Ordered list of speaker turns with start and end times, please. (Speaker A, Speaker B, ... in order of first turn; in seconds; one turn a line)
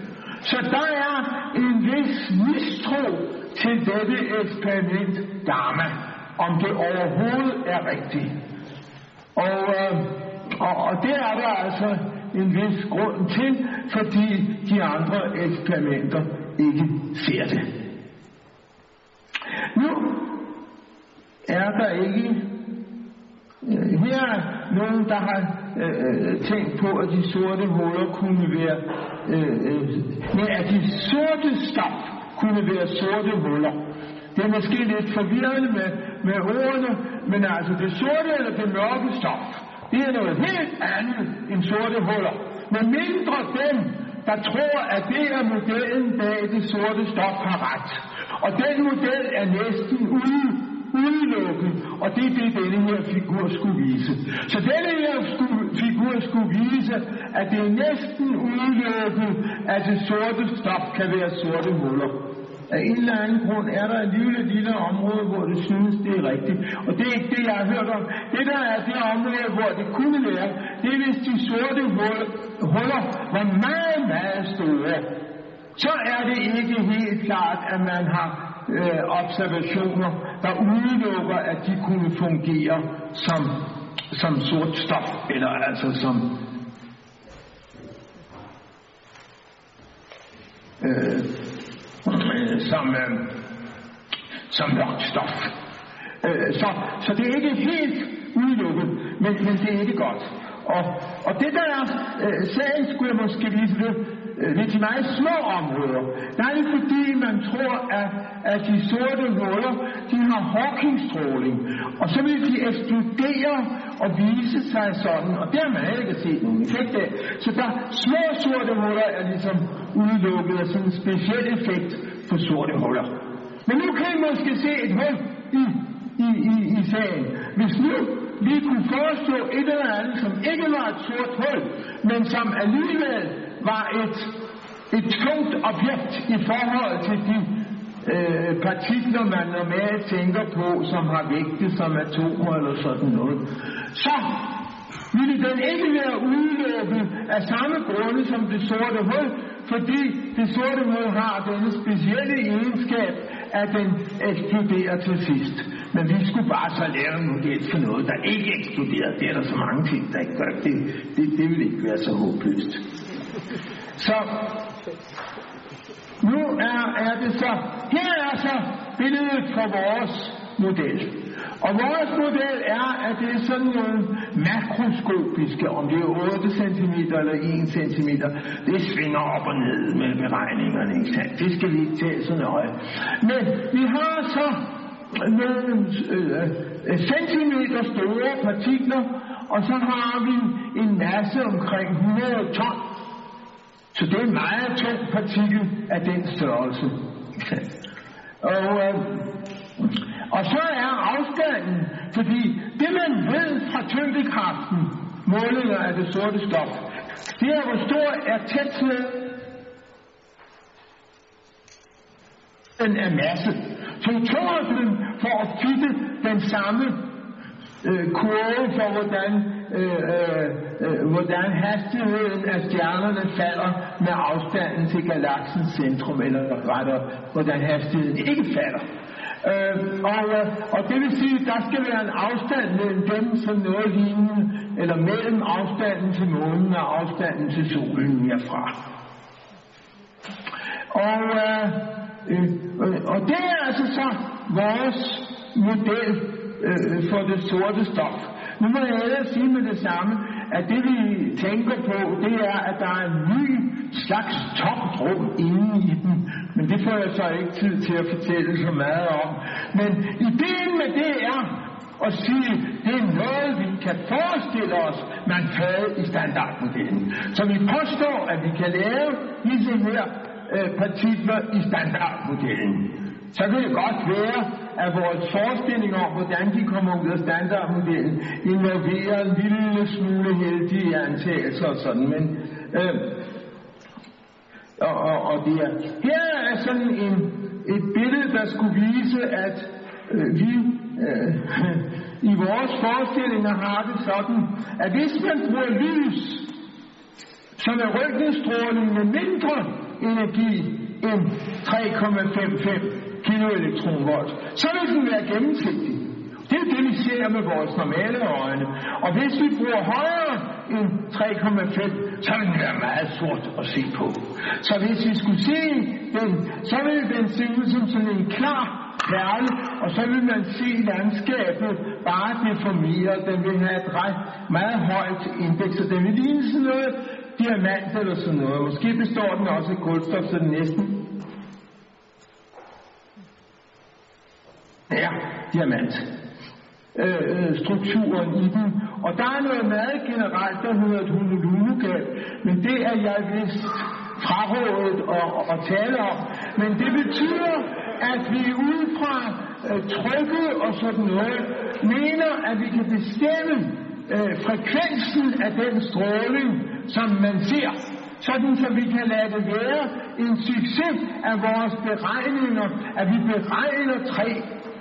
Speaker A: 0.4-8.3
Speaker A: 9.3-17.7
Speaker A: 19.7-20.4
Speaker A: 21.5-22.4
Speaker A: 23.6-33.8
Speaker A: 34.3-62.2
Speaker A: 62.7-75.1
Speaker A: 75.8-86.3
Speaker A: 90.8-91.3
Speaker A: 92.0-93.3
Speaker A: 94.5-95.5
Speaker A: 96.2-123.1
Speaker A: 123.7-134.3
Speaker A: 134.9-137.5
Speaker A: 138.0-143.4
Speaker A: 143.9-162.8
Speaker A: 164.0-164.6
Speaker A: 166.2-192.8
Speaker A: 193.9-197.7
Speaker A: 198.4-209.2
Speaker A: 212.8-217.0
Speaker A: 217.8-228.8
Speaker A: 229.4-238.7
Speaker A: 240.9-283.1
Speaker A: 284.8-296.4
Speaker A: 297.6-331.0
Speaker A: 334.9-336.1
Speaker A: 336.9-364.5